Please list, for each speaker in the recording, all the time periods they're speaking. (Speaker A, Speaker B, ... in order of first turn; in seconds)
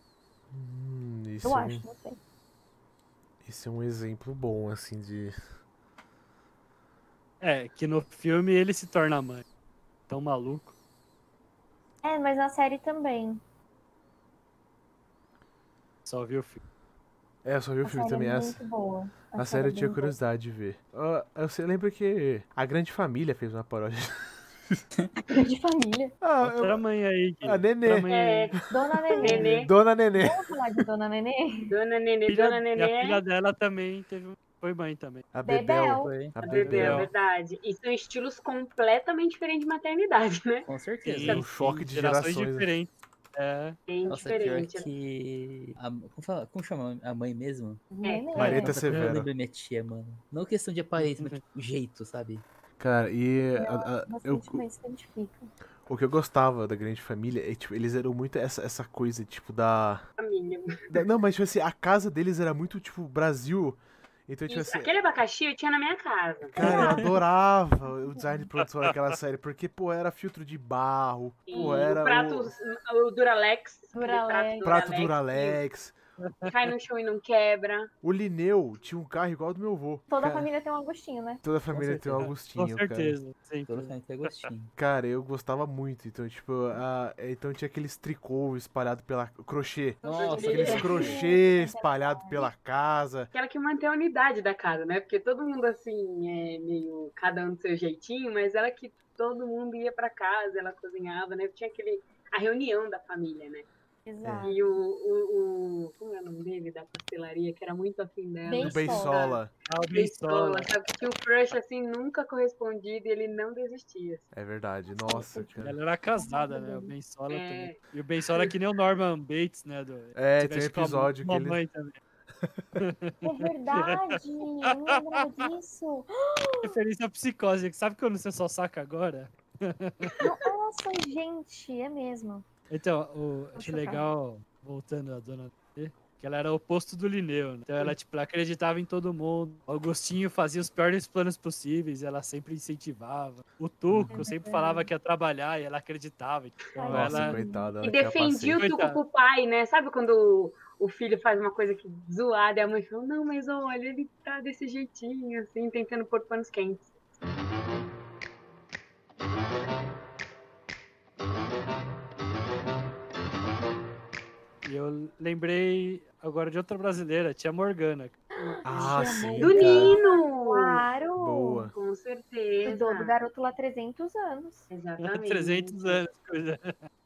Speaker A: 0.5-1.8, 3.4-5.3, 17.4-18.6, 19.3-24.8, 26.2-26.8, 27.4-28.1, 29.0-30.4, 35.3-37.1, 41.2-42.7, 48.3-49.3, 52.8-54.6, 55.9-60.1, 60.9-64.9, 66.5-72.5, 74.6-75.9, 78.0-80.5, 81.4-83.2, 84.8-93.3, 108.6-109.5, 114.3-115.8, 120.1-121.6, 122.4-122.8, 146.8-148.6, 168.6-169.9, 171.2-171.8
Speaker B: 1.4-2.2, 12.0-13.4, 17.8-20.1, 25.3-26.1, 28.7-29.6, 30.2-31.7, 35.4-36.1, 47.9-48.8, 53.6-55.5, 66.6-67.2, 73.9-74.8, 80.1-81.4, 90.5-92.5, 104.0-104.6, 108.4-109.2, 115.0-116.9, 123.2-126.8, 130.2-132.4, 133.5-134.0, 144.1-144.9, 146.7-147.7, 168.4-171.7, 172.6-174.7
Speaker C: 7.4-9.4, 10.1-10.7, 16.1-16.6, 26.4-28.5, 32.3-35.3, 36.6-37.1, 41.0-43.8, 51.0-51.4, 76.2-76.5, 82.2-84.4, 109.7-110.7, 115.6-122.0, 122.8-125.2, 126.6-130.1, 132.7-147.4, 148.5-149.0, 164.6-168.2, 175.0-176.8
Speaker D: 28.1-28.5, 29.2-29.7, 31.7-33.2, 36.4-40.7, 43.9-44.9, 48.0-48.4, 60.2-60.9, 64.5-67.0, 71.5-75.6, 76.5-77.9, 90.0-91.2, 93.3-103.7, 104.4-114.3, 117.3-117.8, 147.8-156.9, 168.4-170.8, 171.7-173.1, 174.7-176.0
Speaker E: 36.0-36.3, 40.6-41.4, 44.1-47.8, 48.4-52.4, 81.7-82.3, 83.7-84.7, 90.0-91.2